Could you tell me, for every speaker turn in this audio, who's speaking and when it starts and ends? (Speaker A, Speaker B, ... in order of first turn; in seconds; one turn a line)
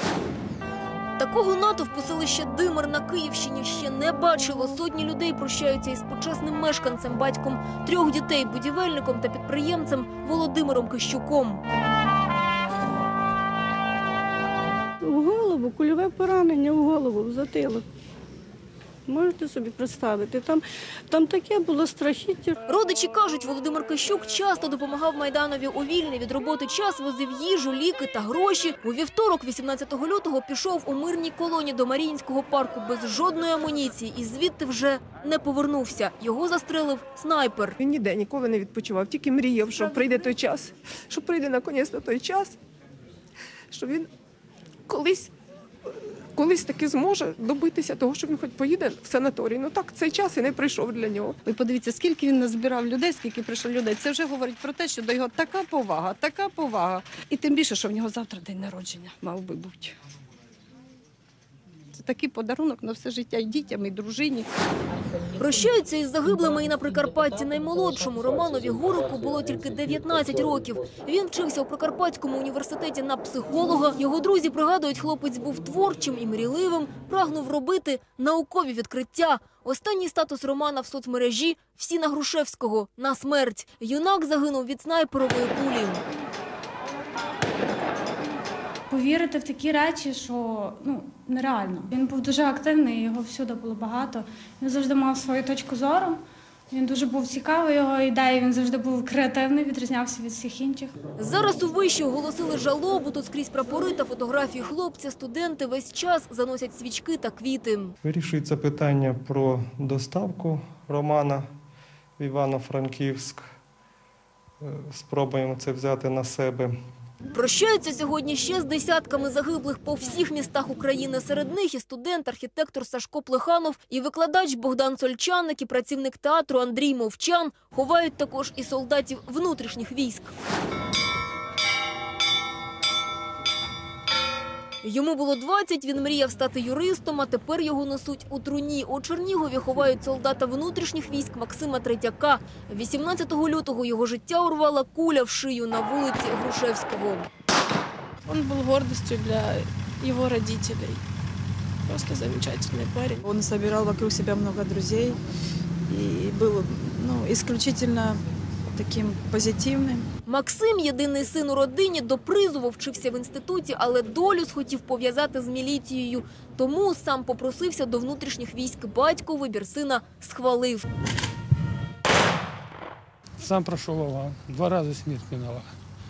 Speaker A: 1.2-11.6
Speaker B: 15.1-17.9
Speaker B: 19.1-22.6
Speaker A: 22.7-37.8
Speaker C: 37.8-42.6
Speaker C: 43.7-44.1
Speaker C: 44.9-45.3
Speaker C: 46.4-51.4
Speaker D: 51.5-59.9
Speaker D: 62.0-64.5
Speaker A: 65.4-86.0
Speaker E: 88.9-96.2
Speaker E: 96.7-101.0
Speaker A: 101.2-107.9
Speaker F: 108.0-111.5
Speaker F: 112.2-113.4
Speaker F: 114.6-116.7
Speaker A: 117.3-130.3
Speaker A: 134.8-147.3
Speaker G: 148.3-151.0
Speaker G: 151.9-153.2
Speaker H: 153.2-155.2
Speaker H: 155.9-158.2
Speaker H: 158.7-160.1
Speaker A: 160.3-170.9
Speaker I: 173.4-175.7